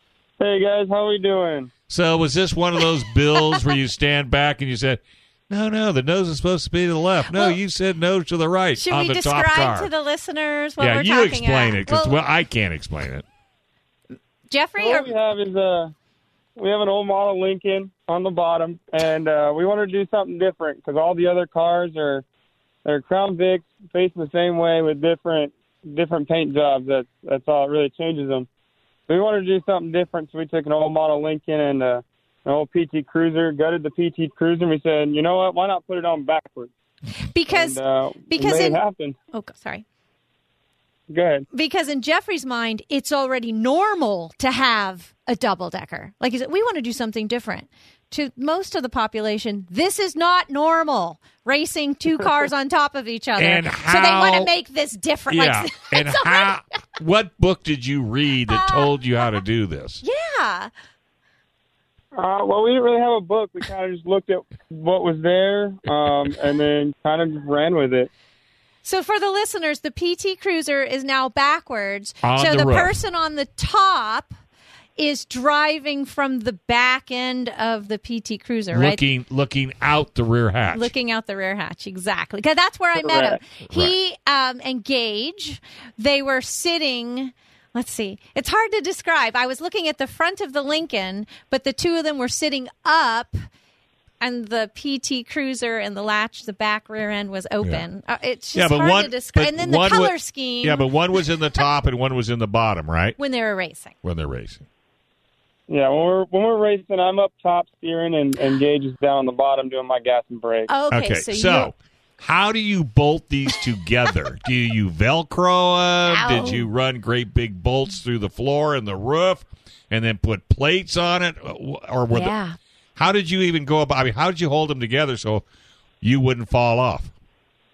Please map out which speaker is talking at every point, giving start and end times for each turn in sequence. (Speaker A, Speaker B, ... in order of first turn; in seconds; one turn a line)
Speaker A: 0.4-1.7
Speaker B: 1.9-9.9
Speaker C: 7.3-7.6
Speaker C: 8.8-12.2
Speaker B: 10.8-13.2
Speaker C: 14.5-15.1
Speaker A: 14.8-15.9
Speaker A: 16.6-22.2
Speaker A: 22.8-28.5
Speaker A: 29.1-36.7
Speaker C: 37.3-39.8
Speaker A: 37.5-39.1
Speaker A: 41.1-41.5
Speaker C: 41.5-56.5
Speaker B: 53.4-54.5
Speaker B: 55.3-60.0
Speaker C: 58.5-59.4
Speaker C: 60.0-60.7
Speaker A: 62.1-68.1
Speaker C: 68.8-74.3
Speaker B: 72.2-73.0
Speaker C: 75.0-79.0
Speaker B: 78.7-80.9
Speaker C: 80.7-93.4
Speaker A: 83.0-83.4
Speaker B: 83.7-83.9
Speaker C: 94.2-101.6
Speaker B: 98.5-103.2
Speaker C: 103.2-103.9
Speaker B: 104.0-104.7
Speaker A: 105.7-110.7
Speaker C: 110.7-111.7
Speaker B: 110.9-122.4
Speaker C: 116.1-116.7
Speaker C: 122.1-122.6
Speaker B: 123.0-125.4
Speaker B: 126.0-127.1